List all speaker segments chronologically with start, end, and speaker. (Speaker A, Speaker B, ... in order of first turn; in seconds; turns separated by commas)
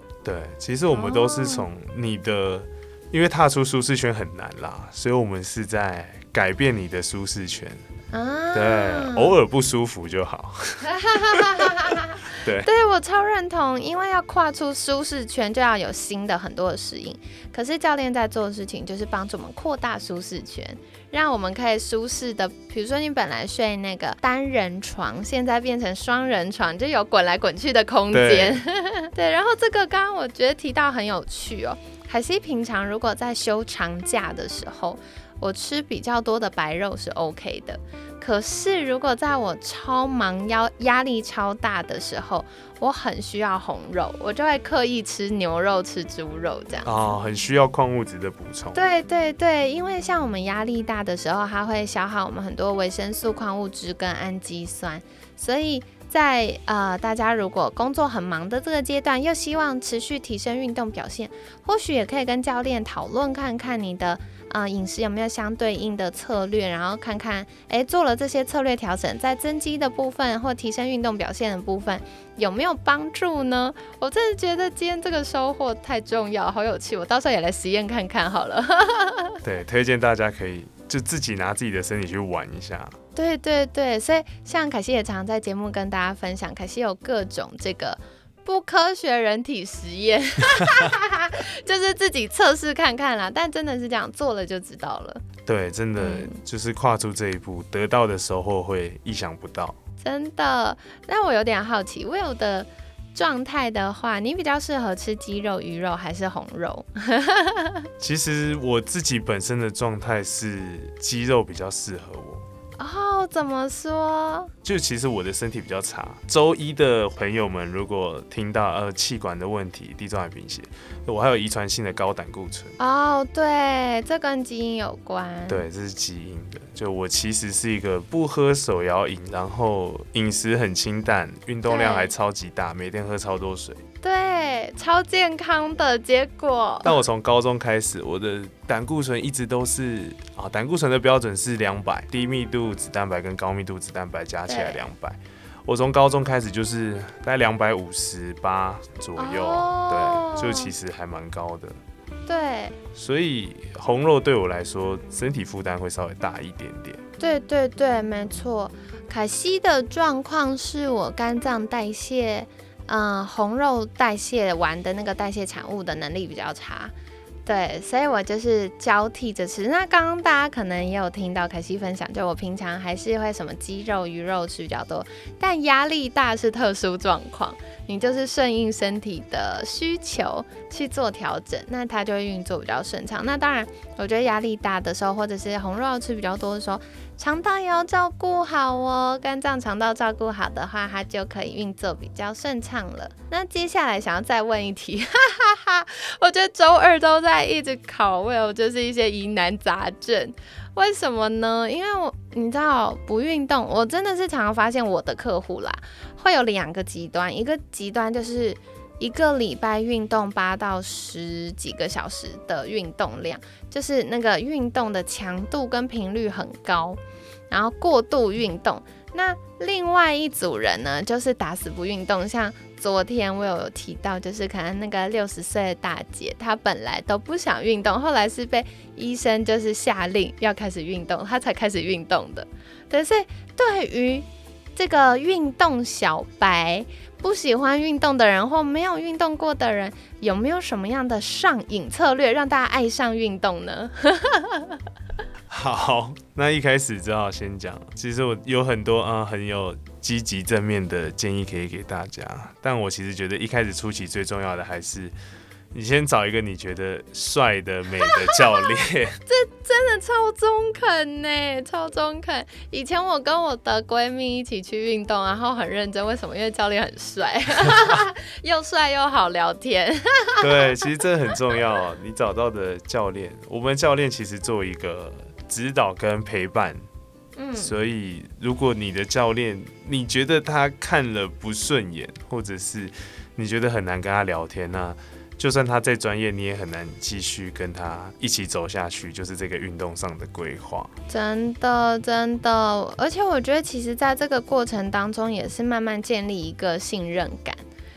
Speaker A: 0.2-7.8, Speaker B: 0.9-1.7, Speaker B: 8.1-9.3, Speaker A: 8.5-11.7, Speaker B: 10.8-47.1, Speaker A: 12.4-12.7, Speaker A: 28.1-28.6, Speaker A: 46.8-48.8, Speaker B: 48.7-79.4, Speaker A: 79.4-83.0, Speaker B: 83.1-95.2, Speaker A: 95.5-99.8, Speaker B: 96.0-96.3, Speaker B: 100.0-107.9, Speaker A: 108.0-112.5, Speaker B: 112.8-114.5, Speaker A: 114.6-122.7, Speaker B: 122.8-125.6, Speaker A: 125.5-133.8, Speaker B: 131.7-132.1, Speaker B: 134.0-137.0, Speaker A: 136.8-151.8, Speaker B: 144.5-144.8, Speaker B: 149.2-150.7, Speaker B: 152.3-152.8, Speaker A: 152.9-157.0, Speaker B: 157.2-166.9, Speaker B: 167.4-217.0, Speaker B: 217.5-244.8, Speaker A: 245.5-255.1, Speaker A: 255.7-259.2, Speaker B: 258.0-258.7, Speaker B: 259.2-270.6, Speaker A: 270.4-276.8, Speaker B: 277.4-277.7, Speaker A: 277.6-290.9, Speaker B: 291.1-297.6